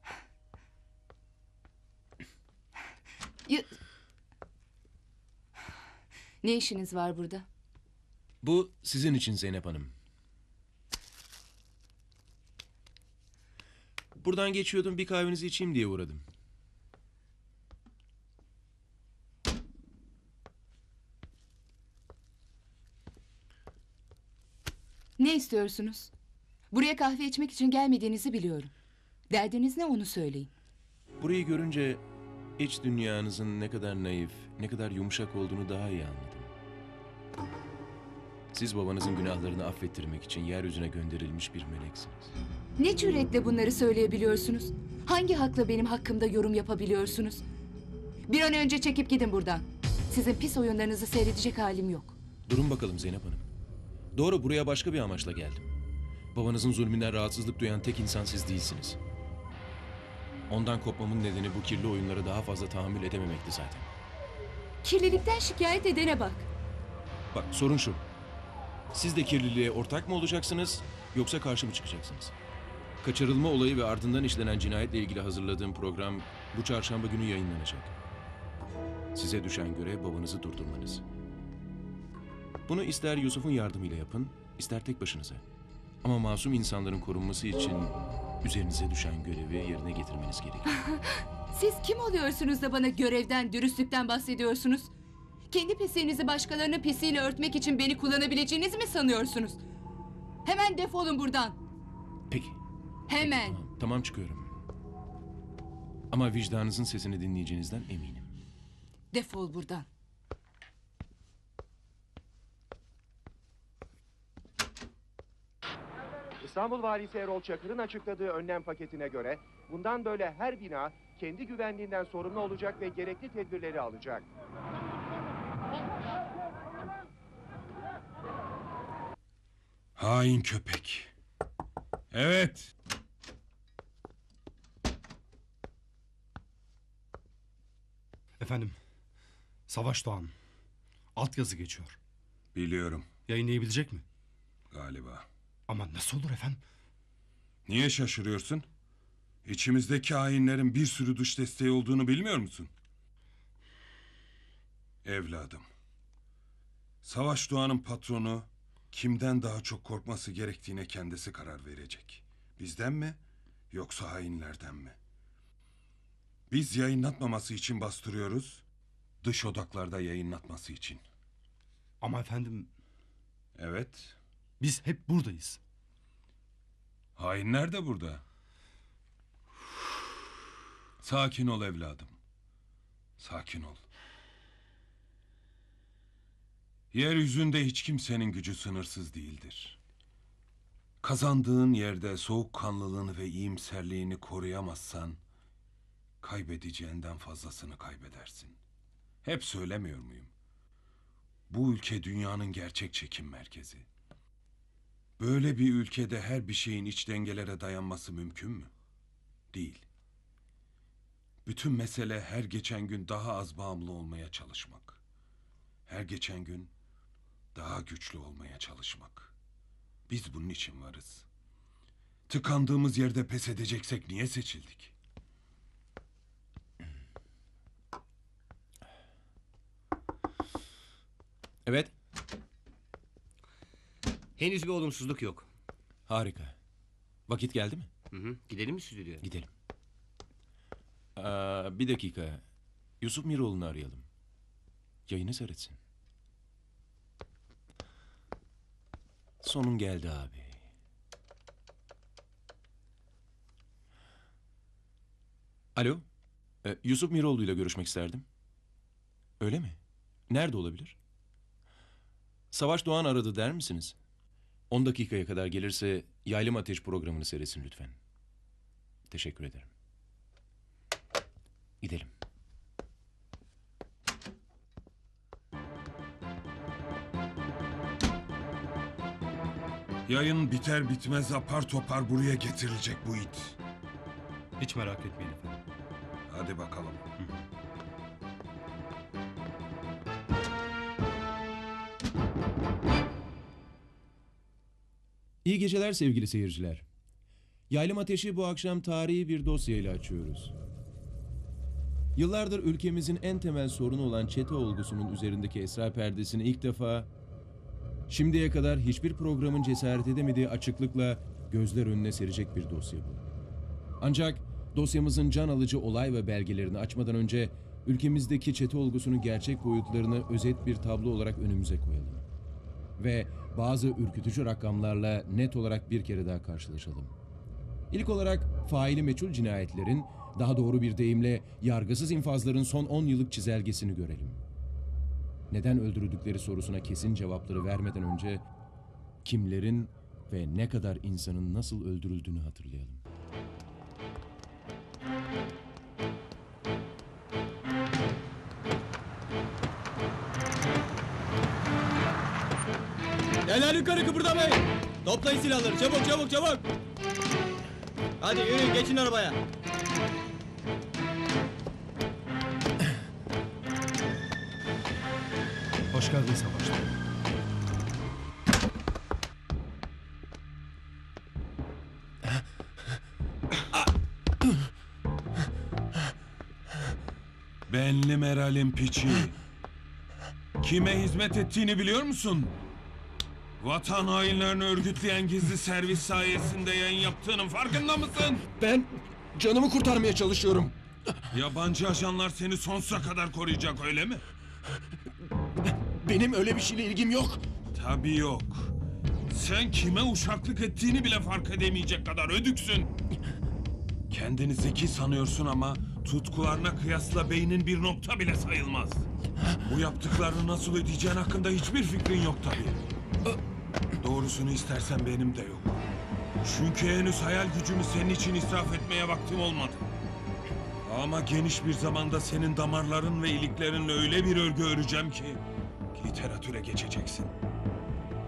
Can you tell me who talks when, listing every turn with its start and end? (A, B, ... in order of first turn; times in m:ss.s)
0:03.5-0:03.7 A
0:06.4-0:07.5 A
0:08.4-0:09.9 B
0:14.2-0:16.2 B
0:25.2-0:26.1 A
0:26.7-0:28.7 A
0:29.3-0:30.5 A
0:31.2-0:32.0 B
0:32.6-0:36.5 B
0:38.5-0:42.3 B
0:42.8-0:47.4 A
0:48.3-0:52.2 A
0:52.5-0:53.5 B
0:54.2-0:55.7 B
0:56.3-0:59.0 B
1:00.5-1:03.9 B
1:04.8-1:06.5 A
1:07.3-1:08.0 B
1:08.9-1:12.4 B
1:13.0-1:17.9 B
1:19.1-1:21.0 B
1:22.7-1:25.4 B
1:26.0-1:30.8 B
1:30.7-1:34.9 A
1:35.5-1:39.6 A
1:40.4-1:41.6 A
1:42.3-1:42.6 B
1:43.1-1:43.6 A
1:43.2-1:44.6 B
1:46.1-1:48.3 B
1:49.1-1:49.9 A
1:56.4-2:04.3 C
2:10.0-2:11.1 D
2:12.1-2:12.7 D
2:18.4-2:18.8 E
2:19.7-2:20.3 E
2:21.2-2:22.0 E
2:22.6-2:23.1 D
2:23.3-2:24.0 E
2:24.7-2:25.3 D
2:25.7-2:26.6 E
2:27.7-2:28.7 D
2:29.4-2:32.7 D
2:35.0-2:35.7 D
2:37.0-2:43.2 D
2:43.7-2:45.0 D
2:46.5-2:48.6 D
2:49.2-2:51.0 D
2:52.0-2:52.7 E
2:53.6-2:54.2 D
2:54.6-2:55.6 E
2:57.2-2:58.2 D
3:01.0-3:02.2 D
3:03.2-3:03.8 D
3:06.9-3:09.8 D
3:11.0-3:15.2 D
3:16.2-3:18.6 D
3:19.2-3:20.3 D
3:21.5-3:23.9 D
3:25.2-3:28.7 D
3:29.5-3:29.8 D
3:31.5-3:35.0 D
3:35.9-3:36.7 D
3:37.6-3:39.3 D
3:40.1-3:41.3 D
3:42.3-3:44.9 D
3:51.7-3:51.9 B
3:54.4-3:55.5 F
3:56.1-3:56.6 B
3:57.3-3:57.9 B
3:58.1-3:59.2 F
3:59.2-3:59.5 B
4:01.2-4:02.4 B
4:03.0-4:04.1 B
4:05.1-4:05.8 B
4:09.4-4:10.6 B
4:15.8-4:16.0 B
4:16.6-4:18.2 B
4:19.4-4:19.8 B
4:20.3-4:21.0 B
4:22.5-4:24.0 B
4:24.7-4:28.0 B
4:29.1-4:29.7 B
4:31.8-4:32.1 B
4:40.1-4:43.6 D
4:44.6-4:45.6 E
4:46.3-4:47.0 D
4:55.4-4:56.9 B
4:57.7-5:00.5 B
5:02.2-5:07.1 B
5:08.1-5:13.3 B
5:14.0-5:22.3 B
5:23.0-5:27.1 B
5:27.9-5:34.4 B
5:35.5-5:38.4 B
5:39.2-5:43.0 B
5:53.5-5:56.6 G
5:58.2-5:59.3 G
6:05.9-6:06.9 E
6:17.7-6:19.4 D
6:20.6-6:22.5 D
6:23.6-6:28.4 D
6:28.6-6:30.8 B
6:31.3-6:34.2 D
6:36.0-6:37.4 B
6:37.7-6:38.7 D
6:39.3-6:42.9 D
6:44.1-6:49.1 D
6:49.6-6:52.8 D
6:54.0-6:55.8 D
6:56.4-6:59.8 D
7:00.8-7:05.4 D
7:05.9-7:07.3 D